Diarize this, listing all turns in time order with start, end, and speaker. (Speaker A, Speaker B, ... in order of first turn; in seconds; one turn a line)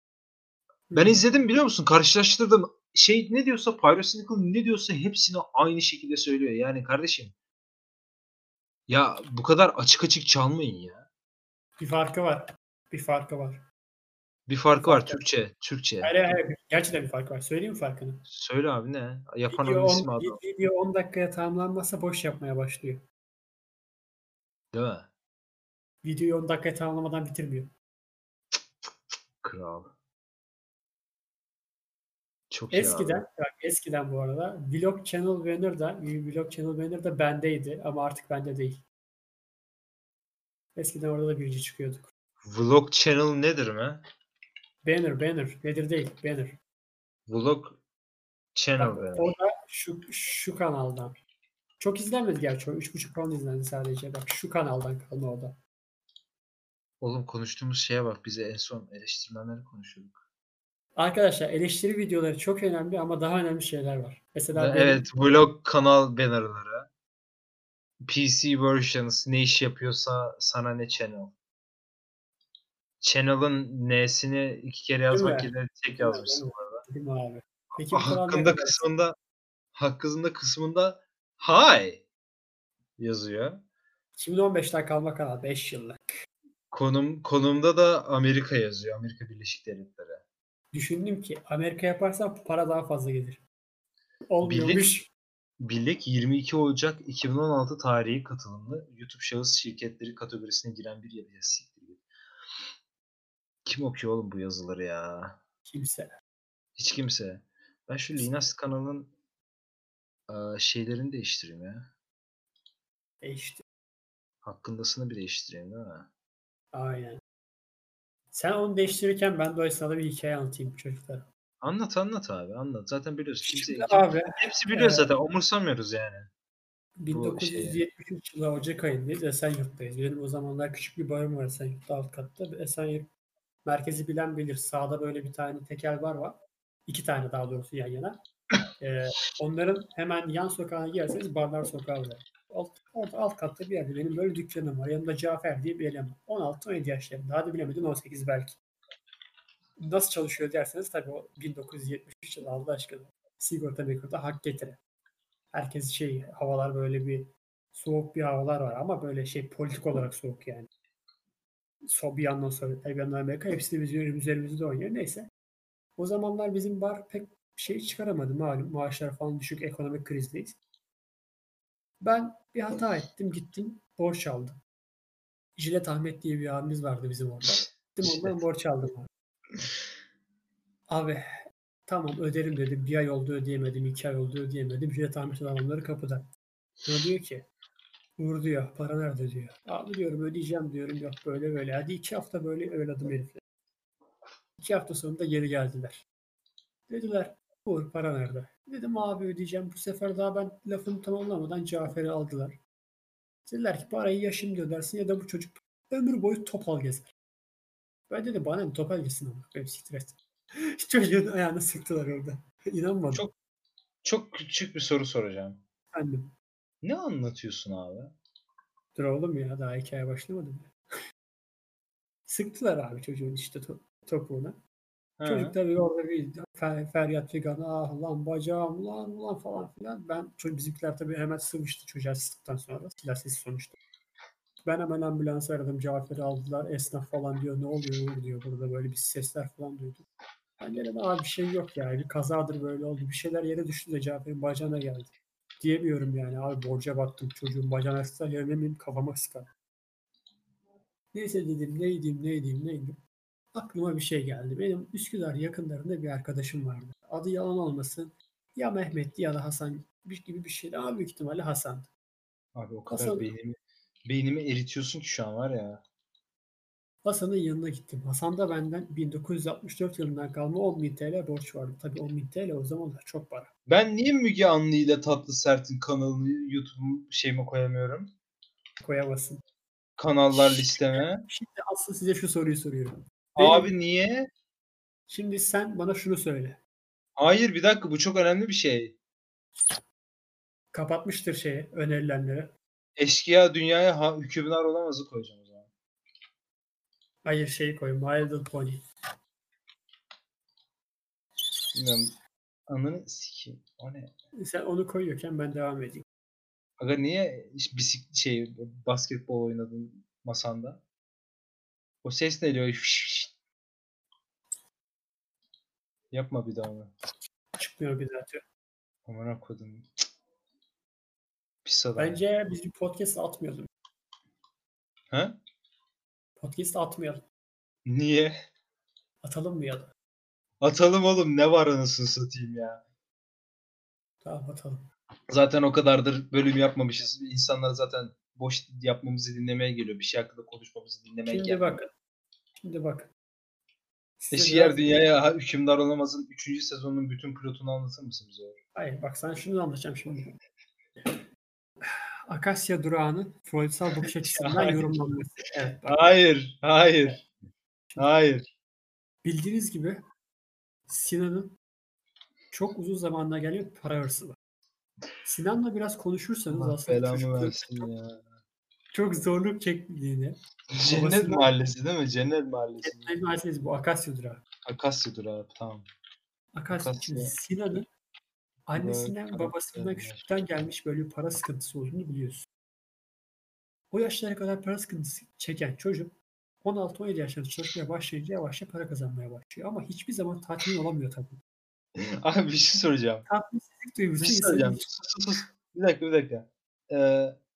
Speaker A: 0.9-1.2
Speaker B: 0.9-7.3
Speaker B: 8.9-11.0
Speaker A: 11.8-13.6
Speaker B: 14.5-16.2
Speaker A: 14.8-15.2
Speaker A: 16.0-18.2
Speaker B: 18.3-20.4
Speaker A: 19.5-23.0
Speaker B: 24.7-25.1
Speaker A: 26.0-27.7
Speaker B: 29.4-29.9
Speaker B: 32.5-33.2
Speaker A: 32.7-38.8
Speaker A: 40.8-42.1
Speaker B: 42.4-44.0
Speaker A: 44.8-46.6
Speaker B: 47.3-47.8
Speaker B: 48.5-49.3
Speaker A: 48.8-51.2
Speaker A: 51.8-55.6
Speaker B: 57.0-60.2
Speaker A: 61.0-65.0
Speaker B: 64.5-66.9
Speaker B: 68.0-71.3
Speaker B: 73.0-76.8
Speaker A: 75.1-78.8
Speaker B: 77.9-79.2
Speaker B: 79.7-82.0
Speaker B: 83.0-83.6
Speaker A: 84.2-86.1
Speaker B: 86.7-90.2
Speaker A: 90.7-93.4
Speaker A: 94.3-95.1
Speaker B: 94.4-94.8
Speaker B: 95.6-102.0
Speaker B: 103.6-105.4
Speaker A: 105.7-106.1
Speaker B: 106.8-109.1
Speaker B: 110.3-111.9
Speaker A: 113.2-113.6
Speaker B: 114.4-116.1
Speaker A: 116.7-117.2
Speaker A: 118.3-121.2
Speaker B: 121.6-126.3
Speaker A: 123.4-125.1
Speaker A: 127.0-133.1
Speaker B: 127.1-127.8
Speaker A: 133.6-138.2
Speaker A: 138.8-148.6
Speaker A: 149.8-154.8
Speaker A: 155.5-160.7
Speaker A: 161.8-165.3
Speaker A: 166.0-170.6
Speaker A: 172.0-174.6
Speaker A: 175.6-179.1
Speaker B: 178.0-178.3
Speaker A: 180.9-186.2
Speaker A: 186.8-187.4
Speaker A: 188.2-193.4
Speaker A: 194.6-196.0
Speaker A: 196.9-202.6
Speaker A: 203.5-207.1
Speaker A: 208.1-213.3
Speaker B: 214.0-215.6
Speaker A: 215.9-216.3
Speaker B: 216.8-218.1
Speaker A: 218.9-220.7
Speaker A: 222.2-224.6
Speaker B: 225.2-225.6
Speaker A: 225.2-233.8
Speaker A: 234.6-240.1
Speaker A: 240.6-249.5
Speaker A: 251.1-253.0
Speaker A: 253.5-261.9
Speaker B: 262.5-265.8
Speaker A: 262.9-263.3
Speaker A: 267.0-273.5
Speaker B: 273.7-278.1
Speaker A: 278.8-279.4
Speaker B: 280.0-281.2
Speaker A: 280.3-283.7
Speaker B: 283.4-284.3
Speaker A: 285.1-286.6
Speaker B: 287.2-288.9
Speaker A: 290.7-292.5
Speaker B: 293.0-295.7
Speaker A: 297.2-298.8
Speaker B: 301.7-302.1
Speaker B: 302.7-304.1
Speaker A: 304.4-306.0
Speaker B: 306.8-310.8
Speaker B: 312.0-313.3
Speaker B: 316.1-316.9
Speaker A: 317.6-318.4
Speaker B: 319.1-319.9
Speaker B: 321.6-322.2
Speaker A: 322.0-323.7
Speaker B: 325.1-325.4
Speaker A: 326.4-327.2
Speaker B: 327.9-328.4
Speaker A: 329.2-329.9
Speaker B: 330.6-332.8
Speaker A: 334.2-334.8
Speaker B: 335.3-341.8
Speaker A: 341.2-341.9
Speaker A: 342.6-343.1
Speaker A: 344.2-344.9
Speaker B: 344.3-348.6
Speaker A: 348.8-350.3
Speaker A: 351.8-356.0
Speaker B: 354.0-354.9
Speaker B: 355.8-357.2
Speaker B: 358.0-358.4
Speaker A: 359.2-360.0
Speaker A: 360.9-361.5
Speaker A: 362.5-364.4
Speaker A: 365.2-367.9
Speaker B: 366.5-368.2
Speaker A: 368.9-371.5
Speaker B: 370.7-373.1
Speaker A: 372.8-374.4
Speaker B: 374.6-375.9
Speaker A: 376.5-377.9
Speaker B: 376.7-377.3
Speaker A: 378.7-382.5
Speaker B: 378.8-380.2
Speaker A: 383.9-391.4
Speaker B: 391.9-393.2
Speaker A: 393.3-395.0
Speaker B: 394.2-397.4